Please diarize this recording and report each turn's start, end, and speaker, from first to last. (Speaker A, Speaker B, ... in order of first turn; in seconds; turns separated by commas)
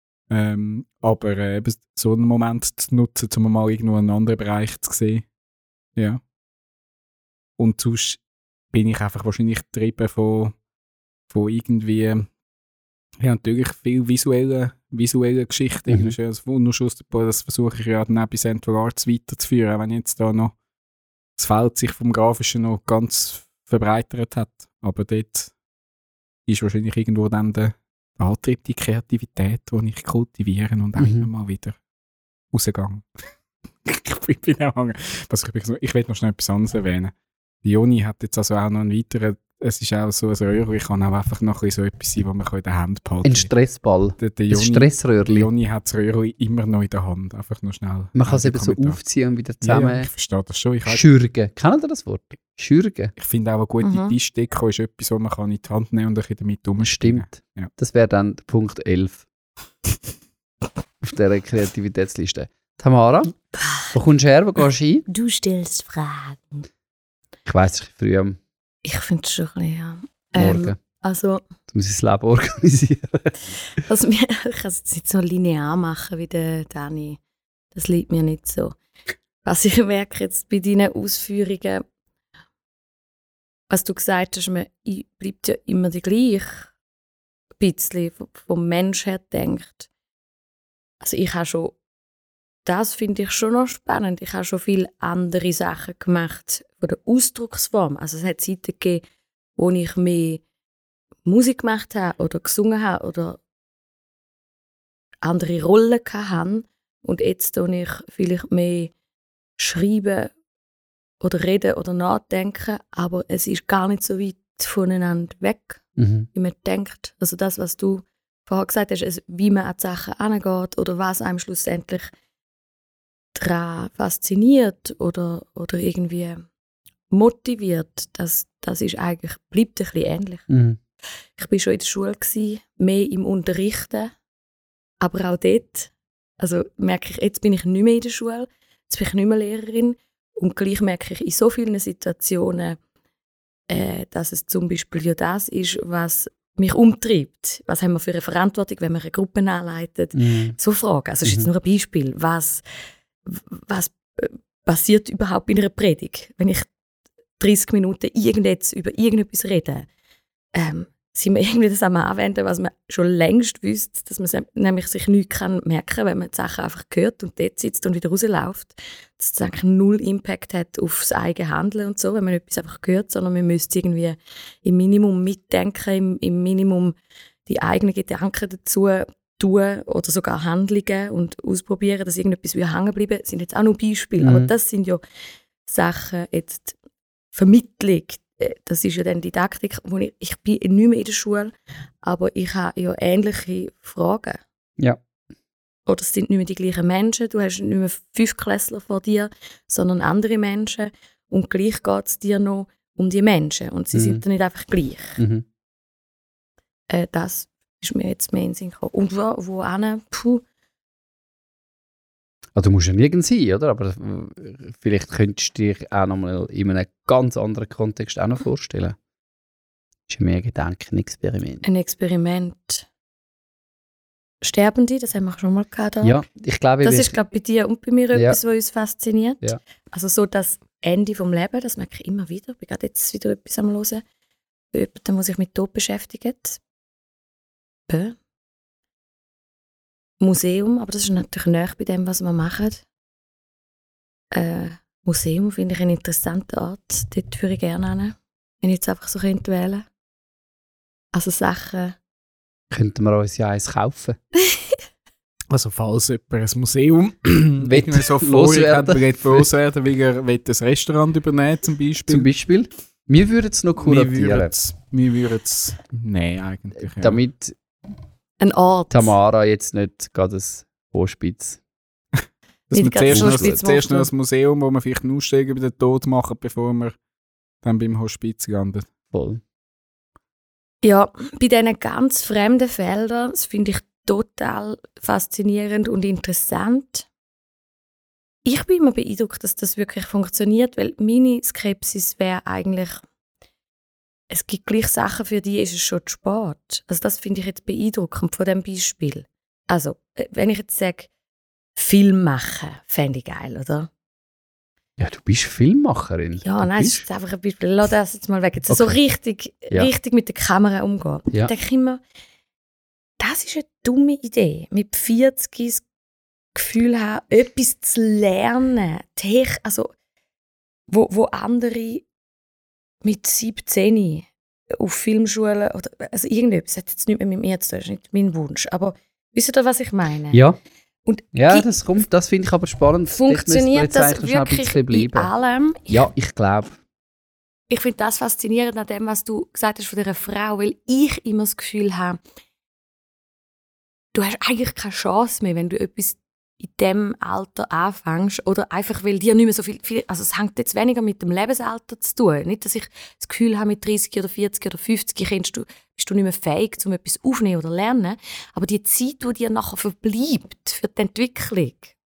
Speaker A: 0.3-5.2, Speaker A: 7.6-8.2, Speaker A: 8.7-10.5, Speaker A: 11.3-12.3, Speaker A: 13.2-20.5, Speaker B: 15.9-16.1, Speaker A: 21.4-25.5, Speaker A: 26.5-31.8, Speaker B: 31.0-31.3, Speaker A: 32.5-33.0, Speaker A: 33.8-37.1, Speaker A: 37.6-43.5, Speaker B: 43.2-45.5, Speaker A: 44.2-49.0, Speaker B: 48.1-50.1, Speaker A: 49.6-51.0, Speaker B: 50.9-53.1, Speaker A: 53.2-57.7, Speaker C: 53.8-54.1, Speaker B: 56.8-59.2, Speaker B: 61.0-63.3, Speaker C: 63.5-63.9, Speaker B: 63.9-65.0, Speaker C: 65.1-66.7, Speaker B: 67.5-68.4, Speaker C: 68.8-71.4, Speaker B: 70.3-70.8, Speaker B: 71.7-73.3, Speaker C: 73.8-77.2, Speaker C: 77.7-78.8, Speaker C: 79.4-81.8, Speaker C: 83.7-86.7, Speaker C: 87.6-89.9, Speaker C: 91.0-91.8, Speaker C: 92.6-99.0, Speaker C: 99.5-100.4, Speaker C: 101.2-103.4, Speaker C: 105.2-108.9, Speaker C: 109.6-110.3, Speaker C: 111.2-115.8, Speaker B: 116.0-116.3, Speaker C: 116.3-122.1, Speaker C: 123.3-126.5, Speaker C: 127.1-130.4, Speaker B: 130.5-130.8, Speaker C: 131.3-134.1, Speaker C: 135.0-142.8, Speaker C: 143.7-152.6, Speaker B: 150.1-150.6, Speaker C: 153.2-156.7, Speaker C: 157.4-159.9, Speaker C: 160.5-176.9, Speaker C: 177.5-185.0, Speaker B: 184.2-184.5, Speaker C: 185.6-186.8, Speaker C: 187.3-194.4, Speaker C: 195.8-205.2, Speaker B: 203.9-204.2, Speaker B: 205.2-205.4, Speaker C: 206.9-210.4, Speaker B: 212.6-219.0, Speaker B: 220.1-221.6, Speaker C: 221.6-222.9, Speaker C: 224.4-226.2, Speaker B: 226.0-227.1, Speaker C: 226.8-234.0, Speaker C: 234.7-236.6, Speaker C: 237.9-238.2, Speaker C: 240.2-242.8, Speaker C: 244.3-249.8, Speaker C: 251.1-251.9, Speaker B: 252.7-254.2, Speaker A: 255.5-262.3, Speaker B: 257.6-259.5, Speaker B: 262.1-264.5, Speaker A: 263.8-267.2, Speaker B: 266.9-267.6, Speaker C: 268.4-269.1, Speaker B: 268.9-271.6, Speaker A: 272.7-276.9, Speaker C: 272.7-274.1, Speaker B: 273.1-273.6, Speaker A: 277.6-278.9, Speaker B: 279.1-279.4, Speaker C: 280.8-287.1, Speaker C: 288.4-293.0, Speaker C: 294.3-301.1, Speaker C: 301.8-303.9, Speaker B: 305.0-307.1, Speaker C: 306.4-312.0, Speaker B: 308.7-309.0, Speaker C: 313.2-315.8, Speaker C: 316.5-319.9, Speaker C: 320.9-322.1, Speaker C: 323.0-330.4, Speaker B: 330.3-330.6, Speaker C: 331.1-331.7, Speaker B: 331.3-335.3, Speaker C: 333.1-336.1, Speaker B: 335.9-336.8, Speaker C: 337.7-342.2, Speaker C: 344.1-361.9